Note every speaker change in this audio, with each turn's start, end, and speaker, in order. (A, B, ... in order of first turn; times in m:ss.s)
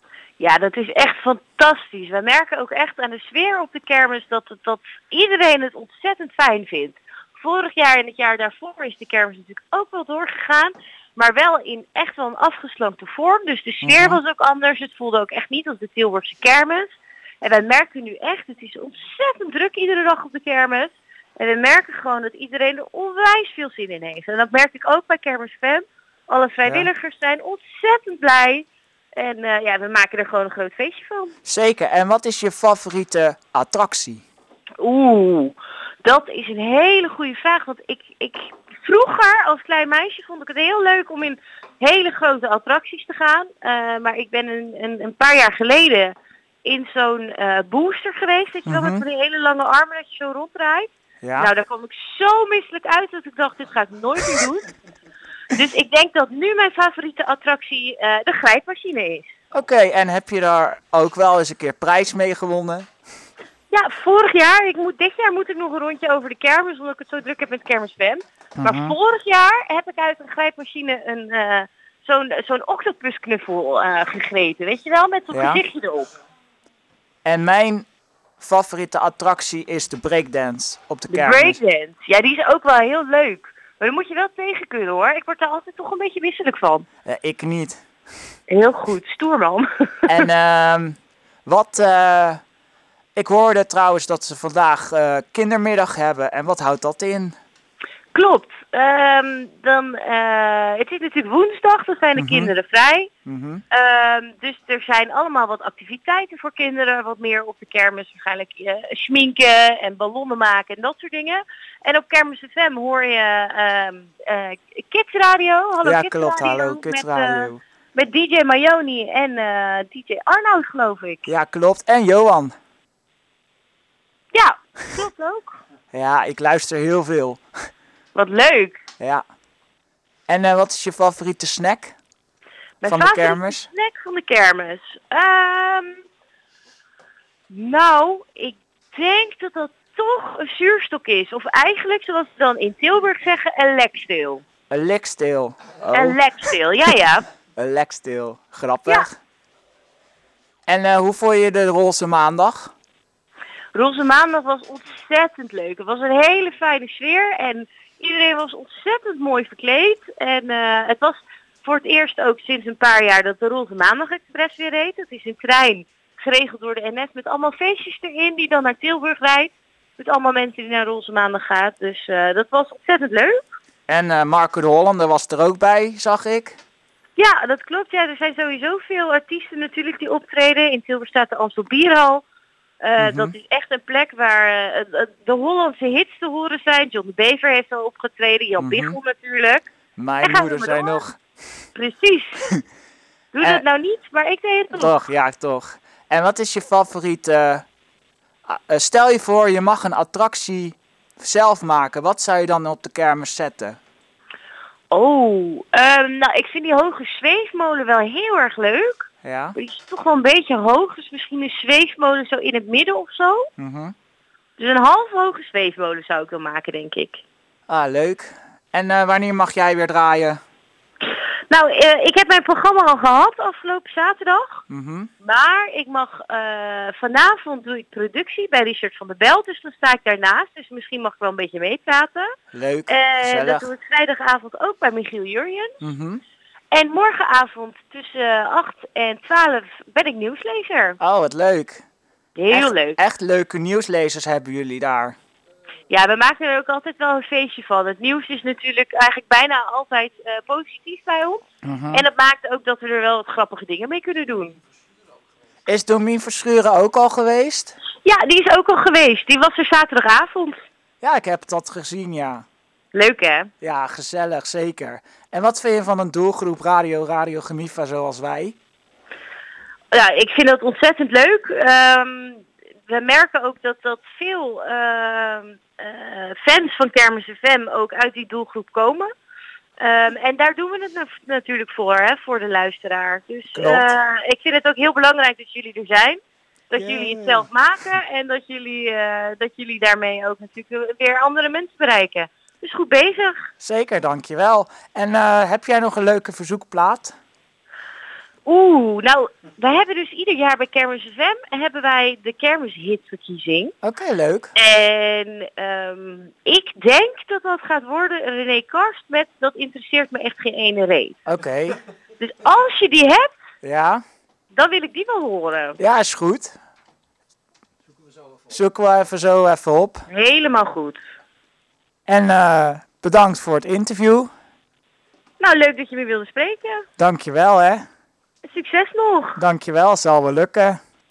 0:00.4-0:31.3 A
0:13.8-0:14.2 B
0:31.4-0:34.2 B
0:34.8-0:46.1 A
0:46.6-0:54.7 A
0:48.6-0:49.0 B
0:51.2-0:51.5 B
0:55.5-0:59.3 A
0:59.5-1:02.9 B
1:03.7-1:16.1 A
1:08.6-1:09.0 B
1:15.3-1:15.6 B
1:17.2-1:17.9 B
1:18.4-1:21.6 B
1:21.1-1:26.9 A
1:27.0-1:27.8 B
1:28.5-1:29.7 A
1:30.1-1:32.4 B
1:33.2-1:37.3 B
1:38.1-1:43.1 A
1:42.2-1:42.5 B
1:43.2-1:43.6 B
1:43.7-2:01.3 A
1:55.8-1:57.6 B
2:01.2-2:02.5 B
2:04.3-2:05.6 A
2:05.9-2:07.4 B
2:08.1-2:08.8 A
2:10.3-2:12.0 B
2:12.8-2:16.0 A
2:12.8-2:13.7 B
2:17.5-2:24.4 A
2:24.7-2:26.2 B
2:25.9-2:27.2 A
2:27.6-2:29.1 B
2:30.7-2:32.7 B
2:33.7-2:53.4 A
2:53.9-2:56.6 B
2:57.2-3:02.2 A
3:02.8-3:09.7 A
3:03.0-3:03.3 B
3:08.6-3:09.0 B
3:10.0-3:11.2 B
3:10.2-3:11.0 A
3:11.7-3:12.5 A
3:13.3-3:14.9 A
3:14.7-3:17.6 B
3:18.5-3:23.8 B
3:24.9-3:33.5 A
3:29.2-3:29.6 B
3:33.6-3:33.9 B
3:34.6-3:37.2 A
3:37.7-3:40.4 B
3:41.5-3:44.6 A
3:44.7-3:45.1 B
3:45.2-3:52.3 A
3:52.5-3:53.7 B
3:52.9-3:55.8 A
3:55.8-3:56.2 B
3:56.7-4:01.0 A
4:01.0-4:01.8 B
4:02.4-4:03.0 A
4:02.5-4:05.2 B
4:05.9-4:14.6 A
4:11.6-4:12.0 B
4:15.7-4:17.7 B
4:18.0-4:20.6 A
4:21.0-4:22.4 B
4:22.9-4:23.5 A
4:23.6-4:28.6 B
4:29.9-4:39.1 A
4:39.8-4:46.2 A
4:43.5-4:43.9 B
4:46.7-4:53.4 A
4:46.8-4:47.4 B
4:53.6-4:57.1 B
4:58.4-5:03.7 A
5:03.8-5:04.5 B
5:04.5-5:11.2 A
5:11.2-5:11.8 B
5:12.2-5:13.3 A
5:13.6-5:14.0 B
5:14.5-5:15.8 A
5:15.8-5:16.6 B
5:18.5-5:20.0 B
5:20.1-5:21.0 A
5:22.1-5:24.3 B
5:25.4-5:26.8 A
5:27.0-5:27.8 B
5:28.4-5:29.4 A
5:29.4-5:30.8 B